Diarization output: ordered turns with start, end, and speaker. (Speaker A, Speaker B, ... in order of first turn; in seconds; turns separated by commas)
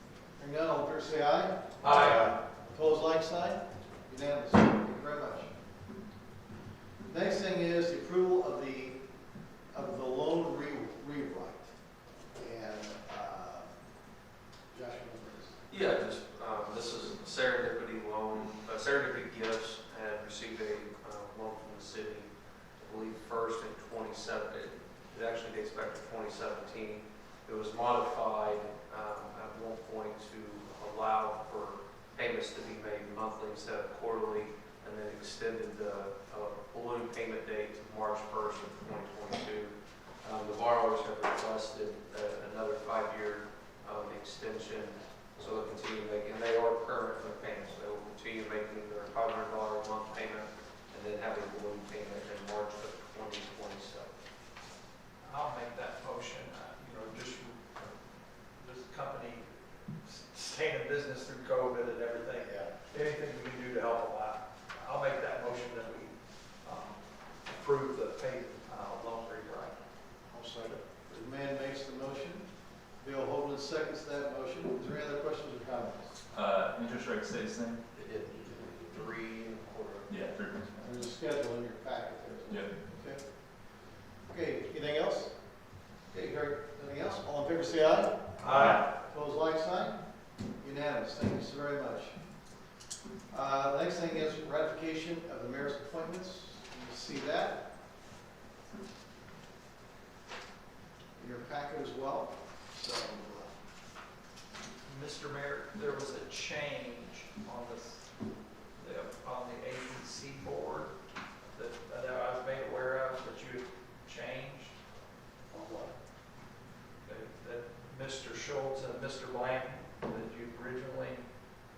Speaker A: 0.4-5.5, Speaker B: 1.8-2.3, Speaker A: 7.1-9.0, Speaker A: 9.7-11.7, Speaker A: 12.3-13.7, Speaker A: 14.7-15.6, Speaker C: 15.7-54.1, Speaker B: 55.2-57.9, Speaker B: 58.6-59.5, Speaker B: 60.0-69.8, Speaker A: 62.4-62.7, Speaker A: 70.3-72.5, Speaker A: 73.0-76.2, Speaker D: 76.3-77.8, Speaker C: 78.0-80.1, Speaker D: 80.1-81.0, Speaker A: 80.8-83.2, Speaker A: 84.3-85.3, Speaker A: 86.1-90.0, Speaker B: 88.4-88.8, Speaker D: 88.5-88.8, Speaker A: 90.6-92.2, Speaker A: 93.3-97.7, Speaker A: 101.2-103.5, Speaker B: 104.9-108.1, Speaker B: 108.8-110.9, Speaker B: 111.5-114.7, Speaker A: 115.5-116.0, Speaker B: 117.0-121.3